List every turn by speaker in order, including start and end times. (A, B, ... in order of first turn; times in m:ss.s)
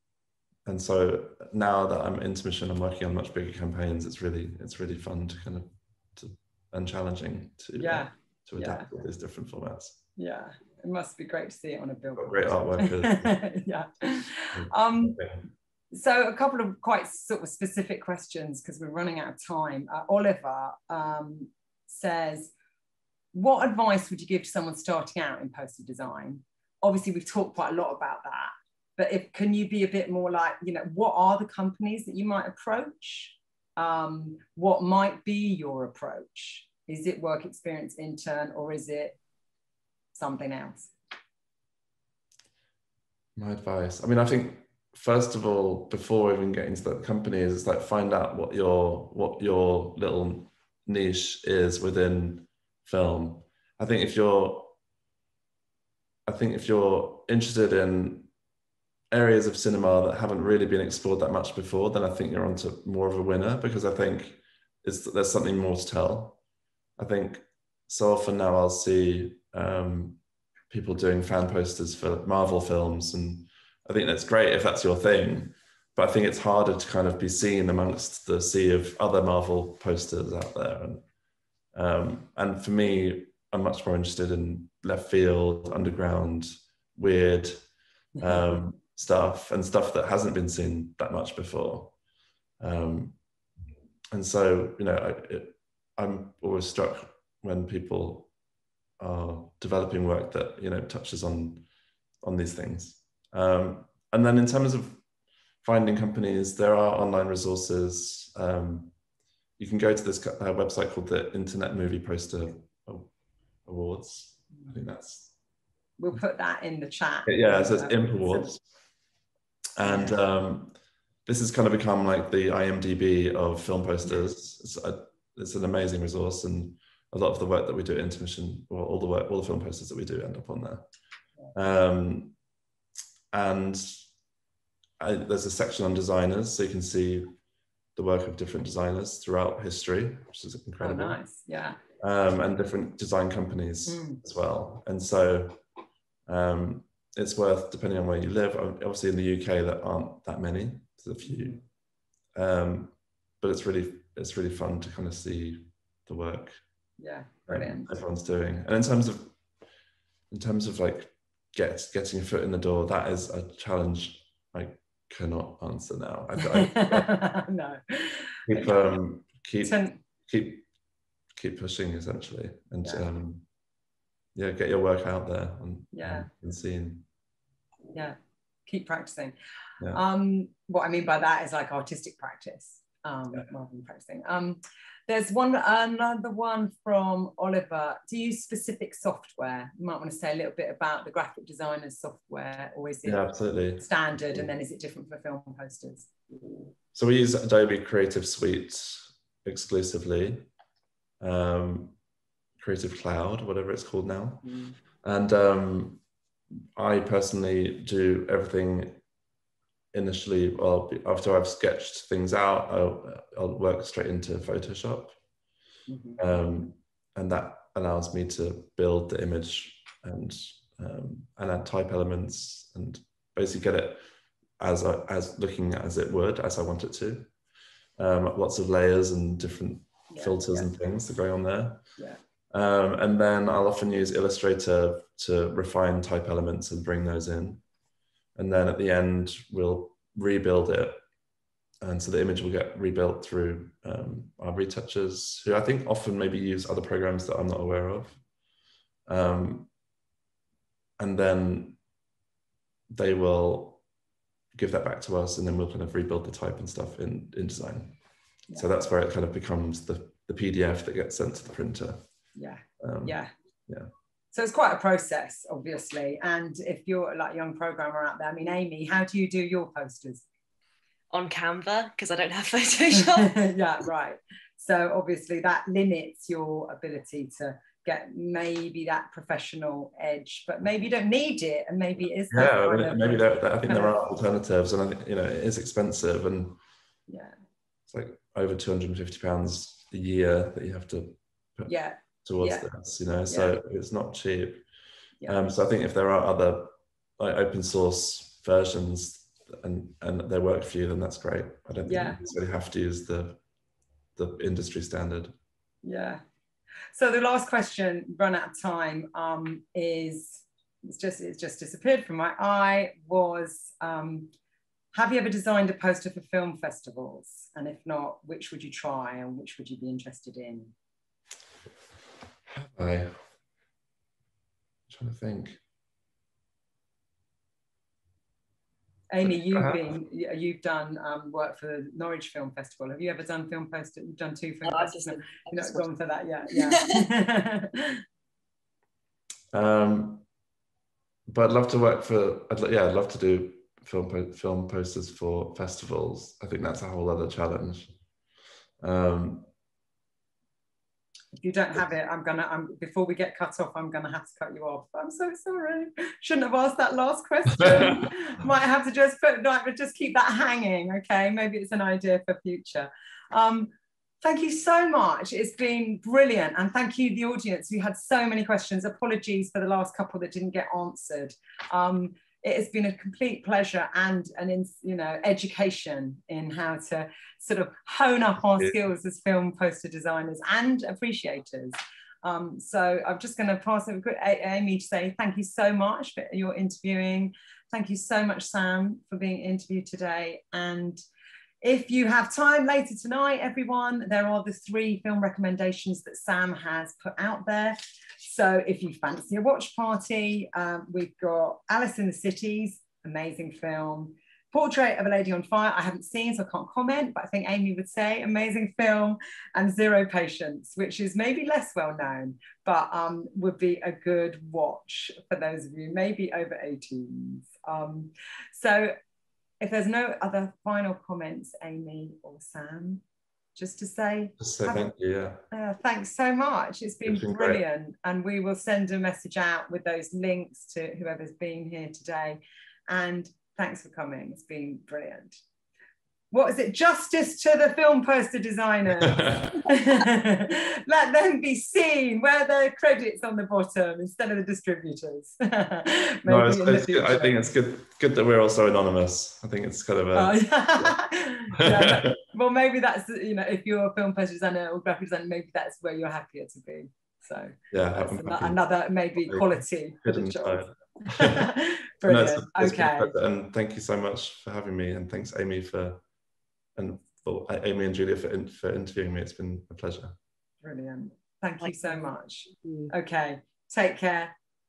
0:00.6-0:10.0 A
0:07.8-0:08.9 B
0:10.2-0:15.2 B
0:12.2-0:13.4 A
0:14.5-0:15.4 A
0:15.9-0:22.5 B
0:23.3-0:39.2 B
0:40.1-0:40.9 B
0:43.4-0:54.8 A
0:56.3-0:58.3 A
0:59.1-1:06.4 A
1:07.0-1:10.2 A
1:10.7-1:21.0 A
1:21.7-1:27.6 A
1:28.2-1:28.5 B
1:28.2-1:31.9 A
1:32.6-1:33.2 A
1:34.1-1:38.3 A
1:39.0-1:41.6 A
1:42.2-1:45.0 A
1:45.6-1:48.9 A
1:49.6-1:53.1 A
1:53.6-1:55.3 A
1:54.5-1:54.8 B
1:56.0-1:58.5 B
1:57.2-1:58.6 A
1:59.8-2:00.7 A
1:59.8-2:00.2 B
2:01.2-2:10.8 A
2:11.5-2:12.3 A
2:13.3-2:14.0 A
2:15.0-2:17.3 A
2:18.0-2:21.2 A
2:20.8-2:21.8 B
2:22.0-2:25.6 A
2:23.8-2:24.2 B
2:26.3-2:31.6 A
2:31.2-2:31.6 B
2:32.3-2:36.6 A
2:37.0-2:37.9 B
2:37.5-2:39.3 A
2:40.3-2:47.1 A
2:46.4-2:48.9 B
2:48.5-2:50.6 A
2:49.6-2:50.0 B
2:51.4-2:53.4 A
2:54.3-2:57.0 A
2:55.9-2:56.3 B
2:58.7-2:59.4 B
2:59.9-3:13.2 B
3:13.0-3:14.5 A
3:13.8-3:16.1 B
3:16.9-3:20.5 A
3:21.2-3:21.9 A
3:22.6-3:24.4 A
3:24.4-3:24.7 B
3:25.0-3:26.0 A
3:26.8-3:29.0 A
3:29.9-3:35.2 A
3:35.9-3:36.2 B
3:36.2-3:44.0 A
3:44.6-3:47.3 A
3:48.0-3:51.8 A
3:50.1-3:50.7 B
3:52.5-3:57.6 A
3:58.4-4:01.0 A
4:01.8-4:08.2 A
4:09.1-4:09.7 A
4:11.0-4:11.8 A
4:12.9-4:13.8 A
4:14.5-4:18.0 A
4:18.5-4:22.0 A
4:22.4-4:23.3 B
4:22.8-4:23.9 A
4:24.3-4:30.2 B
4:31.1-4:33.4 C
4:33.0-4:44.0 B
4:42.3-4:46.6 A
4:47.1-4:47.3 B
4:47.9-4:51.7 A
4:51.7-4:52.6 B
4:52.2-4:54.6 A
4:55.3-5:03.4 A
5:01.8-5:02.2 B
5:04.2-5:05.3 A
5:05.8-5:06.2 B
5:06.9-5:14.3 B
5:14.9-5:20.7 B
5:22.5-5:23.2 A
5:24.9-5:25.6 A
5:29.1-5:38.0 B
5:29.2-5:29.9 A
5:34.6-5:35.9 C
5:36.5-5:36.8 C
5:39.5-5:40.2 A
5:41.3-5:47.9 A
5:48.8-5:49.5 A
5:51.4-6:31.0 B
6:31.6-6:58.9 B
6:59.6-7:03.0 B
7:03.5-7:04.9 B
7:04.4-7:05.4 A
7:05.5-7:15.4 B
7:07.0-7:07.6 A
7:16.3-7:27.4 B
7:19.0-7:19.6 A
7:26.3-7:30.9 A
7:30.1-7:43.1 B
7:31.6-7:32.2 A
7:37.7-7:38.6 A
7:39.2-7:41.4 A
7:42.0-7:46.0 A
7:46.7-7:50.2 A
7:50.6-7:54.3 B
7:51.8-7:52.1 C
7:52.6-7:52.9 C